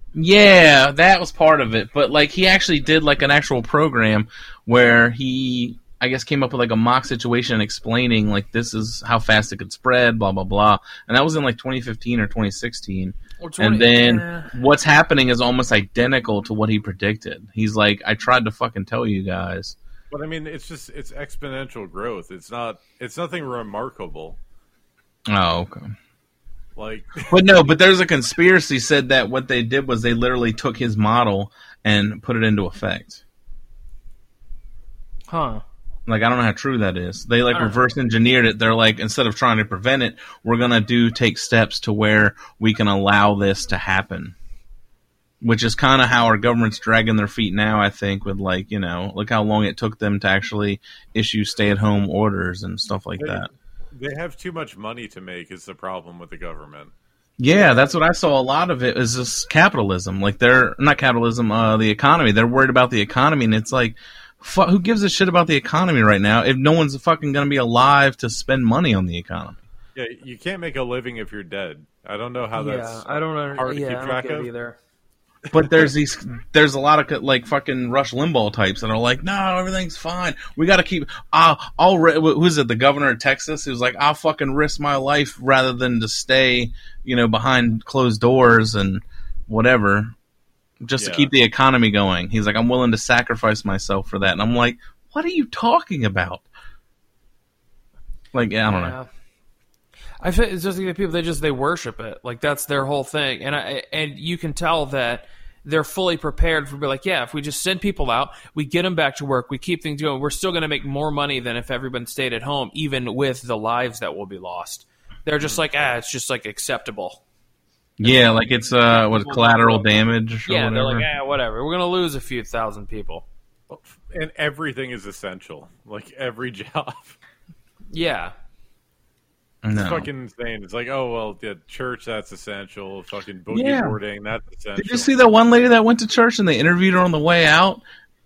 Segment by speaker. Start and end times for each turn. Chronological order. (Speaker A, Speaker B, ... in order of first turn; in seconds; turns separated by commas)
Speaker A: 0.1-19.8, Speaker B: 13.4-14.5, Speaker C: 20.1-24.4, Speaker A: 25.3-25.9, Speaker C: 26.8-27.4, Speaker A: 27.3-33.2, Speaker B: 35.3-35.6, Speaker A: 36.1-44.3, Speaker B: 37.5-37.8, Speaker A: 45.4-53.5, Speaker C: 53.2-56.9, Speaker A: 57.4-69.5, Speaker C: 57.5-57.9, Speaker C: 69.9-74.5, Speaker B: 72.5-74.8, Speaker C: 75.5-75.9, Speaker A: 75.5-90.1, Speaker A: 90.8-96.5, Speaker C: 91.0-91.3, Speaker A: 98.3-99.0, Speaker B: 98.6-99.1, Speaker B: 100.2-117.2, Speaker C: 115.4-115.8, Speaker A: 118.0-121.1, Speaker B: 118.9-123.2, Speaker C: 123.7-127.2, Speaker B: 127.9-128.3, Speaker A: 129.6-130.1, Speaker C: 129.7-135.1, Speaker A: 133.5-134.0, Speaker A: 134.8-137.8